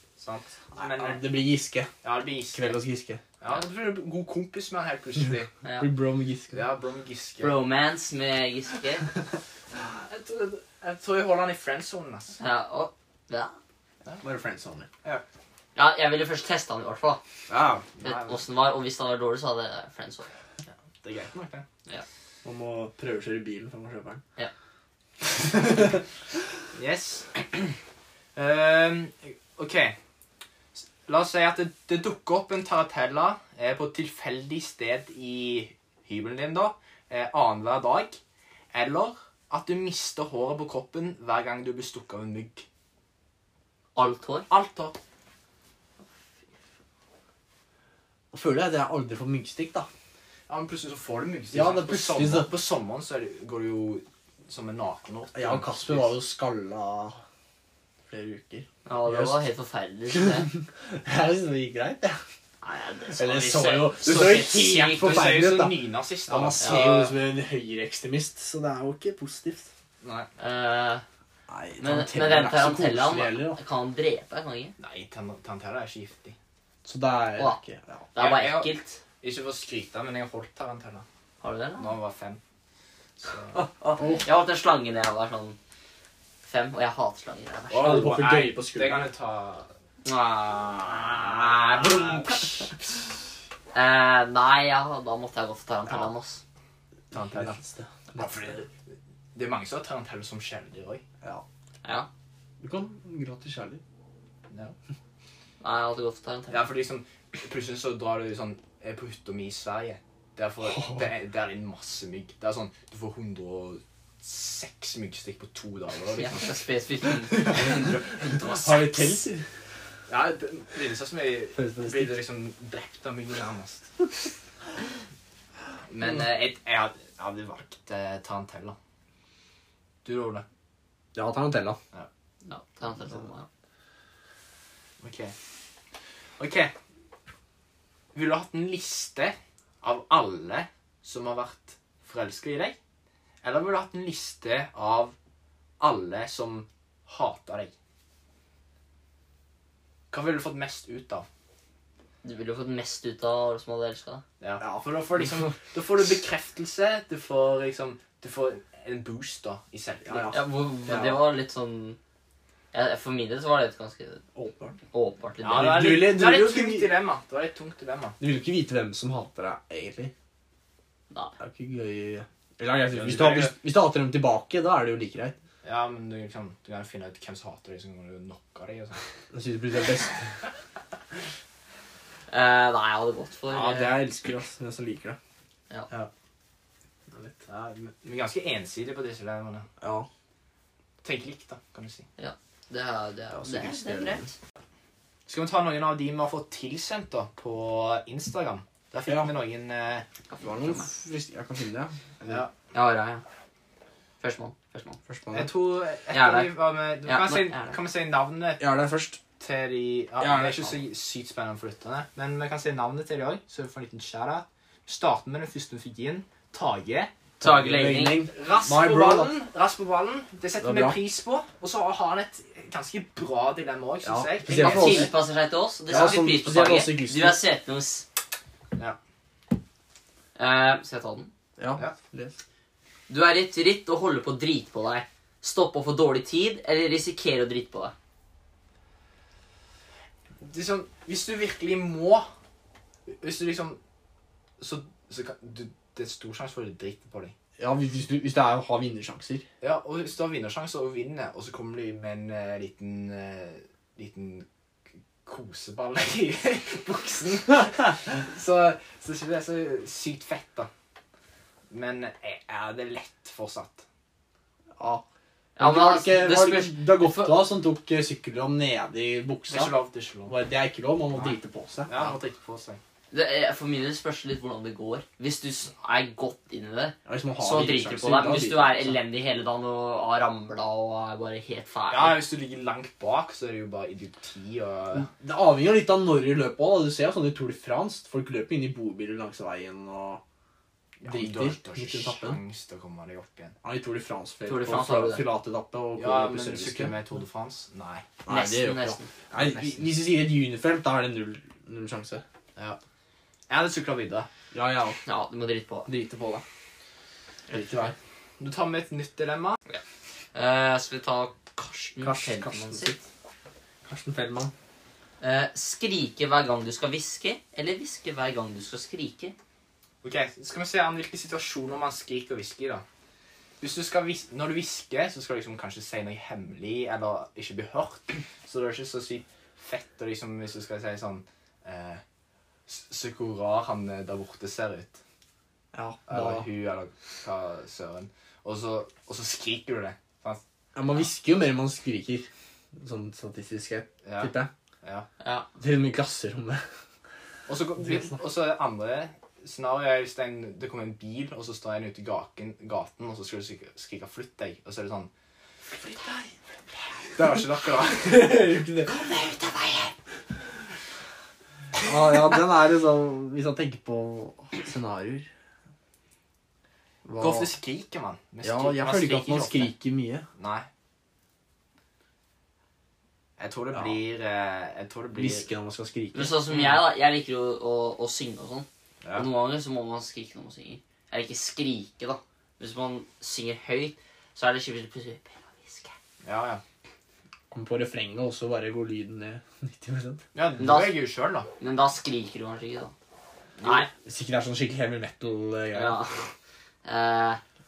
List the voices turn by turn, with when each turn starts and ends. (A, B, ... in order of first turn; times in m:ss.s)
0:00.2-0:01.2 A
0:00.8-0:01.9 B
0:02.0-0:02.6 A
0:02.5-0:03.2 B
0:03.4-0:05.5 A
0:05.6-0:05.9 C
0:05.8-0:06.6 B
0:06.5-0:07.6 A
0:07.4-0:09.0 C
0:09.9-0:12.4 A
0:12.4-0:13.5 C
0:14.2-0:14.9 B
0:15.8-0:17.2 C
0:17.5-0:18.4 A
0:18.0-0:20.3 C
0:21.0-0:21.6 A
0:22.4-0:24.2 B
0:25.2-0:26.0 B
0:26.7-0:27.7 A
0:28.4-0:29.9 A
0:30.8-0:38.2 A
0:38.7-0:42.6 A
0:43.9-0:44.5 C
0:44.5-0:45.0 A
0:48.3-0:49.9 B
0:50.5-0:56.2 A
0:51.5-0:52.5 B
0:55.3-0:57.2 B
0:58.1-0:59.4 B
0:58.8-1:00.5 C
1:00.1-1:02.2 B
1:02.6-1:05.2 C
1:03.1-1:09.7 B
1:04.0-1:07.1 A
1:10.0-1:10.3 A
1:10.4-1:11.0 C
1:11.5-1:13.6 B
1:11.8-1:14.7 C
1:14.8-1:16.4 A
1:16.8-1:18.1 B
1:18.1-1:19.0 C
1:18.2-1:21.0 A
1:21.4-1:21.9 C
1:21.8-1:22.4 A
1:23.2-1:23.6 A
1:23.5-1:25.6 C
1:24.0-1:24.2 B
1:26.4-1:28.1 C
1:27.7-1:29.7 A
1:27.7-1:29.1 B
1:30.0-1:32.4 C
1:30.8-1:32.7 A
1:33.7-1:36.4 C
1:37.1-1:37.6 A
1:37.1-1:38.3 B
1:38.1-1:38.7 A
1:39.3-1:41.0 A
1:42.6-1:43.8 B
1:44.5-1:44.8 A
1:45.6-1:46.6 C
1:46.5-1:56.5 A
1:50.7-1:51.0 B
1:56.2-1:59.0 C
1:57.4-1:57.8 B
1:58.4-1:59.4 B
2:00.1-2:03.9 A
2:01.5-2:02.2 B
2:05.9-2:08.8 A
2:10.0-2:10.4 A
2:11.1-2:11.8 B
2:12.4-2:13.5 C
2:15.0-2:15.3 A
2:16.4-2:16.7 A
2:18.1-2:22.8 A
2:23.4-2:25.1 A
2:25.8-2:27.7 A
2:30.1-2:31.2 A
2:32.2-2:34.2 C
2:34.4-2:40.4 A
2:34.6-2:35.3 B
2:40.0-2:41.1 B
2:40.3-2:42.0 C
2:42.7-2:44.2 C
2:44.3-2:44.8 B
2:44.9-2:45.9 C
2:45.4-2:48.2 A
2:45.5-2:46.9 B
2:48.2-2:50.1 B
2:51.4-2:55.4 B
2:52.9-2:53.5 A
2:55.6-2:59.0 A
2:59.3-3:00.4 B
3:02.3-3:03.9 C
3:03.5-3:05.2 B
3:07.1-3:07.4 B
3:07.4-3:09.7 A
3:09.8-3:10.1 B
3:11.0-3:12.0 A
3:12.2-3:14.3 C
3:13.3-3:14.3 B
3:15.3-3:20.0 A
3:19.1-3:19.3 B
3:20.3-3:20.9 C
3:20.4-3:22.4 B
3:22.7-3:23.2 C
3:24.2-3:25.0 C
3:25.1-3:25.5 B
3:25.3-3:28.7 A
3:26.1-3:27.8 C
3:28.6-3:29.2 B
3:29.4-3:37.1 A
3:30.2-3:30.7 B
3:37.4-3:39.3 B
3:37.4-3:38.2 C
3:38.3-3:45.1 A
3:40.6-3:41.0 B
3:44.0-3:45.1 B
3:44.5-3:48.0 C
3:45.9-3:47.4 B
3:45.9-3:46.2 A
3:50.4-3:51.3 C
3:51.6-3:52.3 B
3:53.1-3:57.9 C
4:00.4-4:02.3 A
4:03.2-4:03.8 A
4:04.6-4:07.3 A
4:07.6-4:09.4 B
4:09.6-4:14.5 A
4:15.2-4:20.7 A
4:21.7-4:23.8 A
4:24.8-4:25.0 B
4:25.6-4:27.4 C
4:25.6-4:29.7 B
4:29.5-4:30.3 A
4:30.3-4:32.1 B
4:31.1-4:32.8 A
4:33.1-4:42.2 C
4:37.0-4:39.0 B
4:41.9-4:45.1 A
4:45.0-4:50.2 B
4:51.0-4:53.6 A
4:51.0-4:52.4 B
4:53.6-4:57.0 B
4:54.4-4:55.2 C
4:56.0-4:58.1 A
4:58.2-5:02.2 B
4:58.3-4:59.1 C
4:59.3-4:59.9 A
5:03.5-5:04.3 A
5:04.5-5:05.0 B
5:05.0-5:05.9 C
5:05.8-5:06.4 B
5:07.5-5:07.9 B
5:08.4-5:09.6 A
5:10.3-5:13.0 C
5:12.0-5:13.0 B
5:13.8-5:14.5 B
5:15.2-5:19.3 C
5:20.0-5:22.8 A
5:23.6-5:32.0 A
5:32.7-5:35.0 A
5:35.7-5:36.5 B
5:36.1-5:40.4 A
5:40.7-5:44.5 B
5:44.0-5:45.1 A
5:45.2-5:45.5 C
5:45.6-5:46.6 B
5:47.5-5:55.1 A
5:47.8-5:48.1 B
5:55.8-5:56.3 C
5:57.2-5:58.3 A
5:58.0-5:59.0 B
5:58.9-5:59.9 C
6:01.8-6:05.3 B
6:07.0-6:07.5 B
6:07.2-6:09.7 A
6:08.4-6:10.3 B
6:10.4-6:10.7 A
6:13.4-6:15.5 A
6:15.1-6:16.4 B
6:16.1-6:25.9 C
6:16.5-6:16.8 A
6:26.2-6:26.6 A
6:27.5-6:30.2 B
6:30.3-6:31.5 A
6:30.6-6:31.0 C
6:31.6-6:32.9 C
6:33.6-6:33.9 A
6:33.6-6:33.9 C
6:34.0-6:36.0 B
6:35.7-6:36.2 C
6:36.8-6:37.4 C